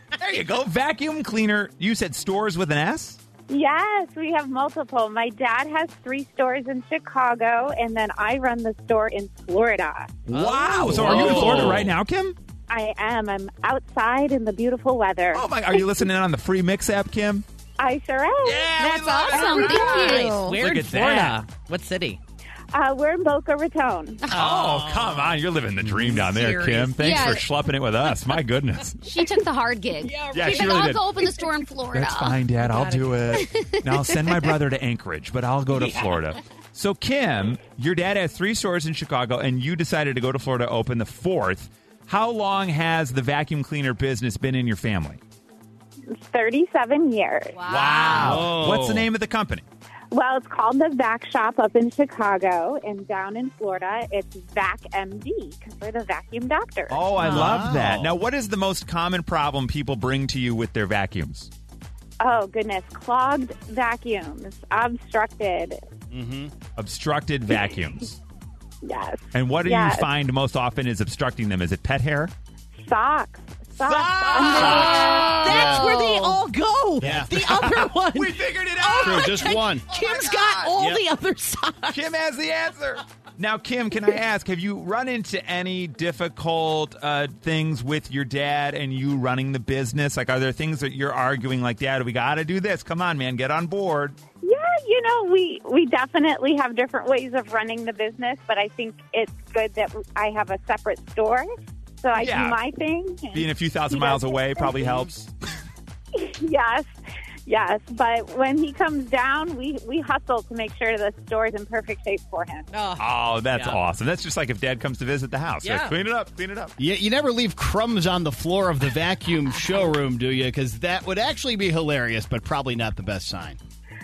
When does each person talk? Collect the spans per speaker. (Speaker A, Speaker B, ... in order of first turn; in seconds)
Speaker A: 0.2-3.2, 10.3-12.3, 15.3-17.4, 18.4-21.4, 24.3-29.0, 30.3-31.0, 31.9-45.2, 47.7-49.6, 56.9-61.5, 66.8-68.2, 69.3-72.3, 73.8-75.6, 77.0-80.8, 81.9-94.2, 102.1-102.6, 103.3-105.3, 113.0-116.7
Speaker B: 3.5-10.2, 12.7-15.9, 17.8-18.8, 22.7-24.3, 46.1-47.6, 50.1-57.2, 62.2-65.8, 68.8-70.1, 72.8-75.4, 94.4-101.5, 102.0-105.0, 106.1-106.9, 107.5-112.7
Speaker C: 10.3-11.9, 48.1-49.1, 57.2-58.1, 66.1-66.5, 74.5-74.9, 75.4-75.8, 77.0-77.3, 79.0-79.9, 80.7-81.0, 116.8-123.6
Speaker D: 10.8-11.3, 19.5-22.2, 24.3-25.4, 25.9-27.2, 30.0-30.9, 32.6-33.2, 35.7-36.2, 57.2-57.7, 74.5-82.0, 112.7-113.8, 115.6-115.9
Speaker E: 18.8-20.6, 27.0-27.4, 29.0-32.4, 33.3-34.1, 47.5-48.5, 74.6-76.4